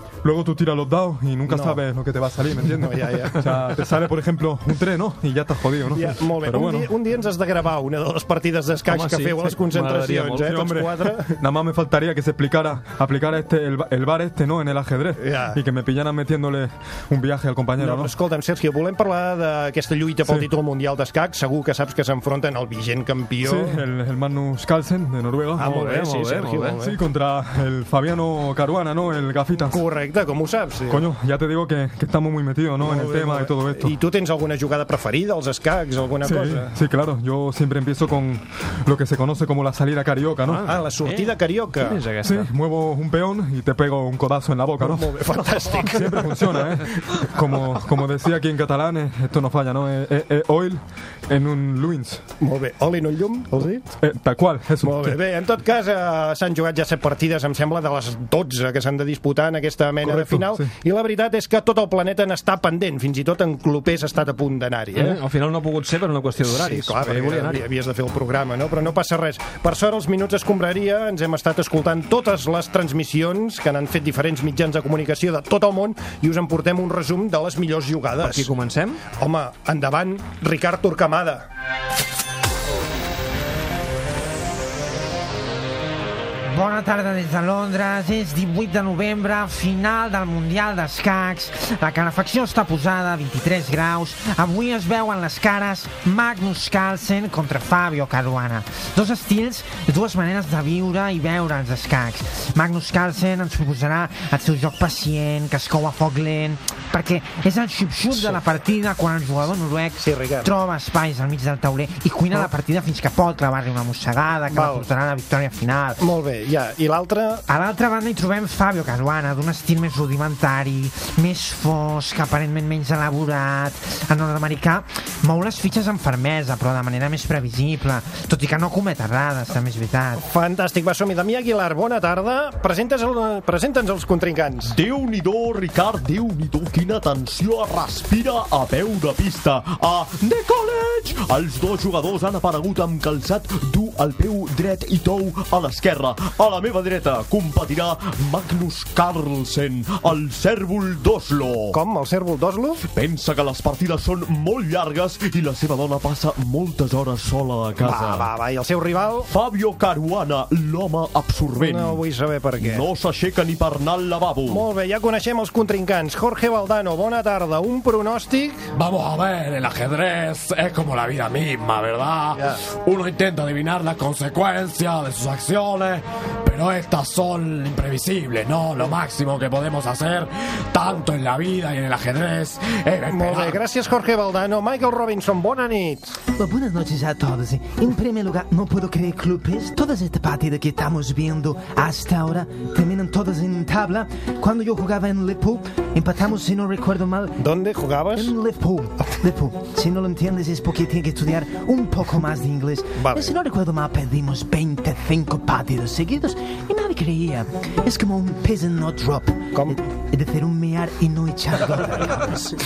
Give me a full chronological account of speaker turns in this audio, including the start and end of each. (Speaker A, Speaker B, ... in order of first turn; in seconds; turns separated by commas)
Speaker A: 0.2-6.9, Speaker B: 1.4-1.8, Speaker B: 2.8-3.5, Speaker B: 5.9-11.3, Speaker C: 8.9-10.2, Speaker A: 10.1-18.1, Speaker B: 15.2-15.6, Speaker B: 17.8-23.8, Speaker A: 20.2-20.5, Speaker A: 23.4-29.8, Speaker B: 25.6-26.9, Speaker C: 26.0-26.6, Speaker B: 29.7-31.0, Speaker A: 30.9-34.0, Speaker B: 32.8-36.7, Speaker A: 36.2-40.8, Speaker C: 40.6-41.2, Speaker B: 40.6-42.0, Speaker C: 41.9-42.5, Speaker A: 42.2-52.2, Speaker B: 44.8-46.6, Speaker B: 52.4-53.8, Speaker A: 54.0-55.2, Speaker B: 54.8-65.2, Speaker A: 60.0-60.7, Speaker C: 65.0-67.6, Speaker B: 66.4-78.5, Speaker C: 78.3-79.0, Speaker B: 79.2-81.5, Speaker D: 86.5-116.0, Speaker B: 108.1-108.4, Speaker B: 110.0-110.5, Speaker B: 114.5-114.9, Speaker B: 116.0-117.4, Speaker D: 117.5-130.2, Speaker B: 130.2-134.8, Speaker E: 134.8-151.8, Speaker B: 151.7-152.8, Speaker E: 152.9-158.3, Speaker B: 157.8-159.3, Speaker E: 159.3-162.0, Speaker B: 161.5-162.9, Speaker E: 162.6-164.6, Speaker B: 164.4-168.7, Speaker F: 168.8-183.6, Speaker B: 172.3-172.6, Speaker B: 183.1-186.1, Speaker G: 186.4-197.5, Speaker B: 197.4-198.3, Speaker G: 198.1-209.5, Speaker B: 203.0-203.3, Speaker B: 209.5-209.8, Speaker G: 210.1-212.4